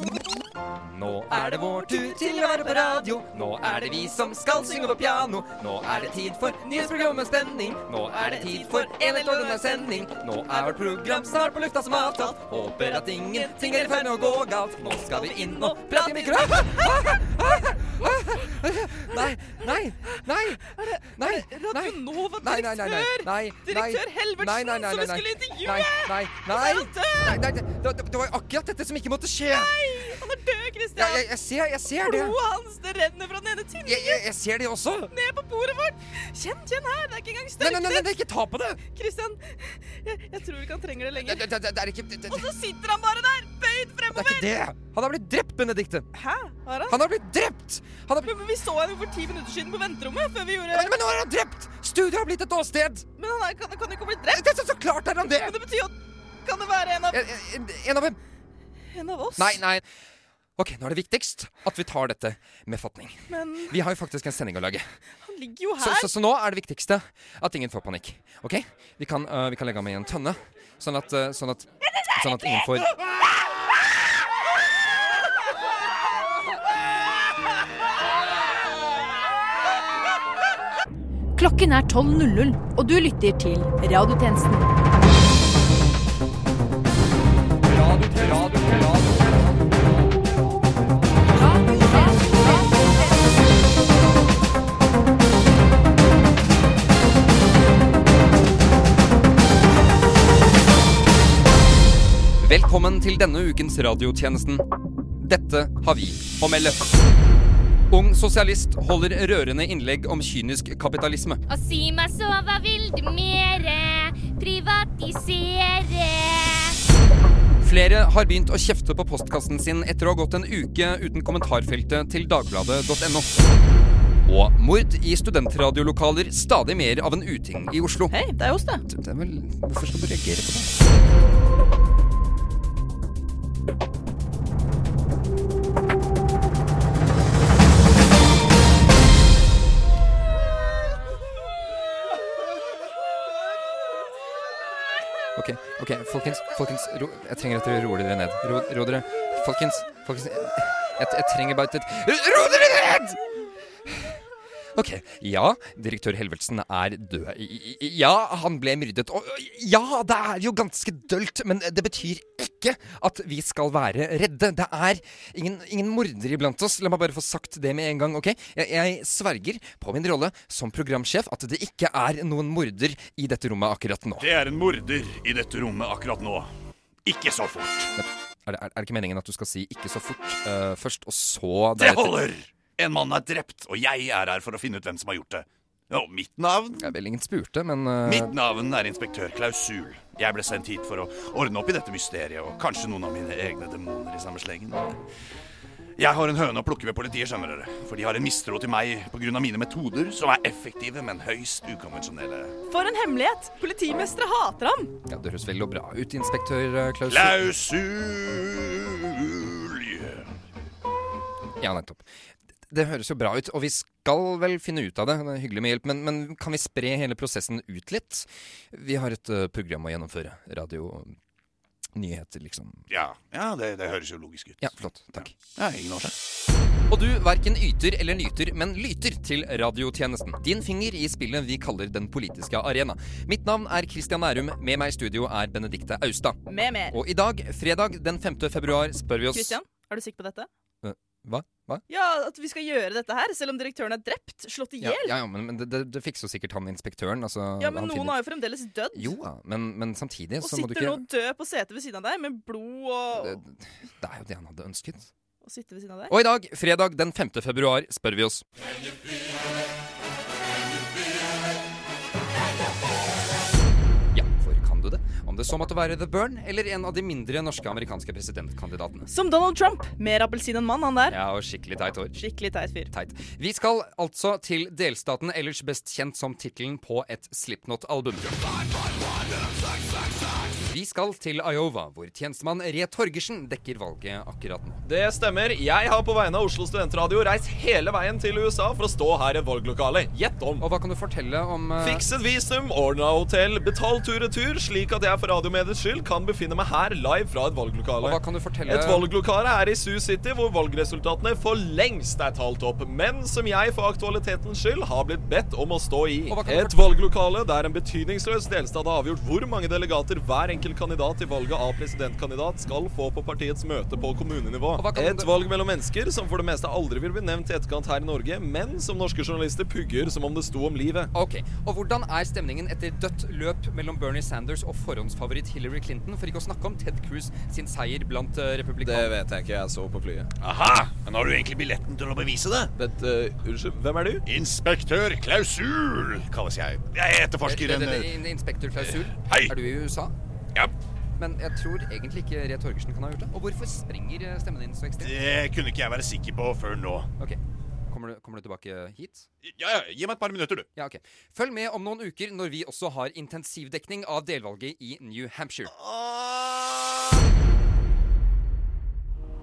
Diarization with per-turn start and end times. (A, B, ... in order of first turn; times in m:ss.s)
0:00.8-0:30.2 A
0:01.3-0:05.2 B
0:08.1-0:18.3 B
0:19.1-0:19.7 B
0:20.8-0:27.4 B
0:29.5-0:31.2 B
0:31.0-0:32.4 A
0:32.0-0:34.2 B
0:33.8-0:35.1 A
0:35.1-0:38.1 B
0:37.6-0:38.8 A
0:38.8-0:41.5 B
0:41.2-0:42.5 A
0:42.3-0:44.5 B
0:44.1-0:46.1 A
0:46.1-0:47.0 B
0:46.9-0:48.3 A
0:48.2-0:50.9 B
0:50.7-0:53.0 A
0:53.2-0:54.4 B
0:54.3-0:55.6 A
0:55.3-0:57.2 B
0:57.1-0:58.2 A
0:58.9-0:59.6 B
0:59.4-0:59.8 A
1:00.6-1:04.9 A
1:03.3-1:03.8 B
1:05.2-1:06.1 B
1:05.8-1:12.9 A
1:21.4-1:24.9 C
1:27.7-1:29.8 A
1:42.4-1:44.6 A
1:45.2-1:46.8 A
1:47.9-1:51.4 A
1:51.5-1:56.8 D
1:57.6-2:03.6 A
2:04.3-2:08.2 A
2:08.1-2:08.8 B
2:08.9-2:10.7 A
2:25.4-2:33.2 A
2:34.8-2:54.3 A
2:54.2-2:56.5 E
2:57.0-2:57.9 E
2:58.0-3:02.3 A
3:01.8-3:06.9 E
3:06.8-3:08.4 A
3:08.1-3:15.0 E
3:16.0-3:22.5 E
3:22.7-3:24.9 B
3:25.1-3:27.5 A
3:27.1-3:30.3 E
3:31.6-3:32.0 A
3:32.7-3:41.2 A
3:42.0-3:42.8 A
3:42.9-3:44.7 E
3:44.6-3:45.4 A
3:45.6-3:46.2 E
3:46.9-3:59.6 A
3:56.5-3:57.0 B
3:59.3-4:00.5 B
4:00.8-4:01.8 A
4:01.9-4:05.2 B
4:04.8-4:08.2 A
4:07.6-4:09.2 B
4:08.9-4:11.0 A
4:10.4-4:13.4 B
4:13.2-4:15.1 A
4:15.4-4:16.1 B
4:16.1-4:18.4 A
4:24.1-4:29.1 A
4:29.1-4:31.2 B
4:31.1-4:32.2 A
4:32.2-4:32.9 B
4:32.9-4:38.4 A
4:40.6-4:44.8 A
4:44.8-4:50.6 F
4:50.6-4:52.1 A
4:51.8-5:21.1 F
4:58.0-4:59.1 A
5:06.3-5:06.9 A
5:14.8-5:15.3 A
5:21.1-5:29.1 A
5:28.8-5:30.3 F
5:30.4-5:32.7 E
5:32.8-5:34.2 F
5:34.3-5:38.1 E
5:37.4-5:40.1 A
5:38.8-5:39.5 E
5:41.2-5:45.1 A
5:45.0-5:47.1 E
5:47.2-5:49.3 A
5:49.4-5:50.7 E
5:50.8-5:55.7 A
5:55.7-5:57.0 E